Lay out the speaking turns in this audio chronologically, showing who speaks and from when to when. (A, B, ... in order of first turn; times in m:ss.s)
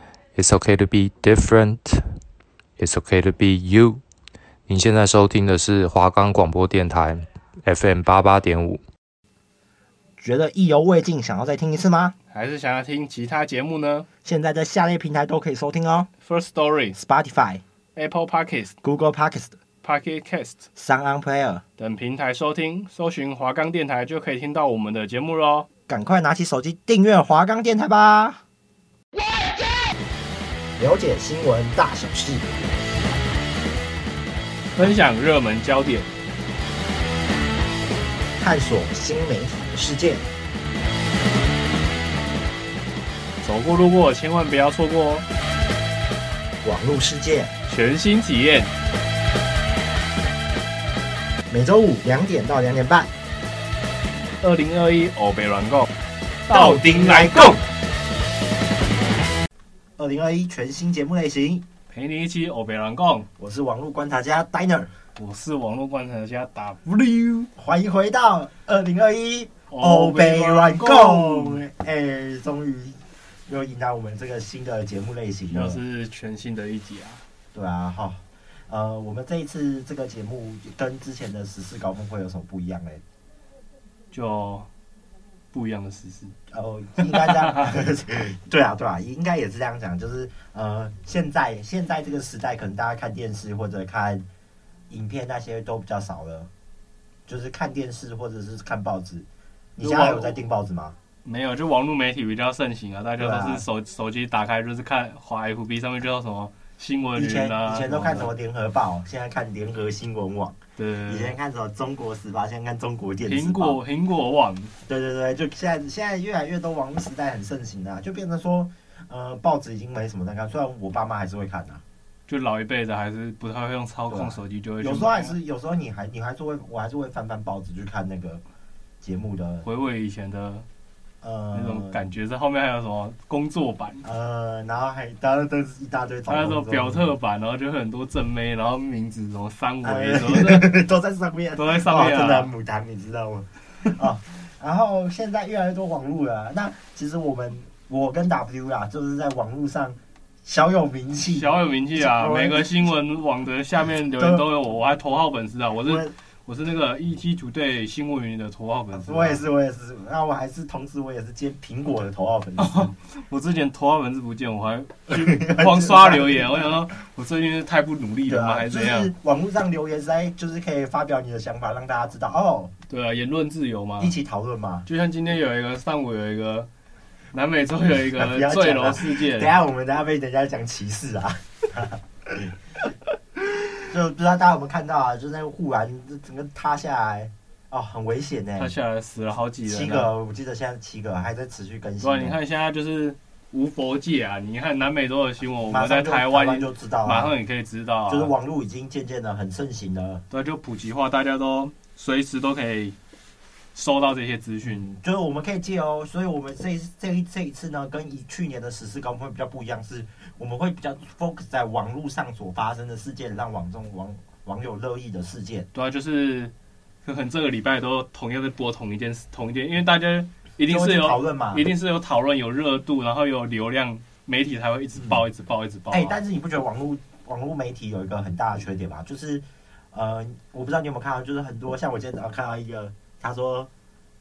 0:00.3-0:02.2 A
0:02.8-0:04.0 A
0:04.7-0:08.8 A
0:10.2-0:12.1 B
0:12.3-0:14.1 C
0:14.2-0:16.1 B
0:16.2-0:17.0 C
0:16.9-0:17.6 B
0:18.0-0:18.7 C
0:18.8-0:19.6 B
0:19.8-0:20.6 C
0:20.8-0:21.6 B
0:21.8-0:25.7 C
0:25.9-0:28.4 B
0:30.8-0:32.5 B
0:34.8-0:36.1 C
0:38.4-0:40.2 B
0:43.4-0:45.2 C
0:46.6-0:47.5 B
0:47.7-0:48.7 C
0:51.5-0:53.1 B
0:54.4-0:55.9 C
0:56.5-0:57.6 C
0:56.5-0:57.6 B
1:00.0-1:01.6 B
1:01.9-1:03.3 C
1:03.4-1:04.9 B
1:05.2-1:07.5 C
1:07.6-1:15.8 B
1:09.7-1:11.6 C
1:15.5-1:17.2 C
1:17.5-1:23.0 B
1:24.1-1:24.7 C
1:25.5-1:26.3 C
1:26.5-1:34.2 B
1:27.1-1:27.7 C
1:34.9-1:36.5 B
1:37.3-1:41.0 B
1:39.8-1:40.4 C
1:41.2-1:48.3 C
1:43.2-1:43.6 B
1:47.1-1:53.8 B
1:50.8-1:51.3 C
1:53.2-1:54.7 C
1:54.9-2:01.8 B
2:02.3-2:05.4 C
2:04.1-2:08.4 B
2:09.0-2:09.6 B
2:09.6-2:10.6 C
2:11.2-2:12.0 B
2:11.5-2:14.0 C
2:14.0-2:17.1 B
2:16.3-2:20.7 C
2:19.8-2:32.9 B
2:21.6-2:22.5 C
2:31.3-2:39.4 C
2:34.2-2:34.5 B
2:35.8-2:36.1 B
2:38.9-2:42.9 B
2:42.6-2:49.1 C
2:45.1-2:46.8 B
2:48.3-2:52.7 B
2:52.9-2:54.1 C
2:54.0-2:54.9 B
2:54.8-2:56.7 C
2:57.3-2:59.5 C
2:58.2-3:02.9 B
3:03.8-3:08.7 B
3:08.6-3:10.1 C
3:09.6-3:12.4 B
3:12.0-3:18.3 C
3:15.6-3:17.4 B
3:18.1-3:20.2 B
3:20.3-3:22.9 C
3:23.7-3:24.8 C
3:24.6-3:35.7 B
3:35.7-3:36.5 C
3:37.0-3:46.2 C
3:40.6-3:41.7 B
3:45.9-3:53.7 B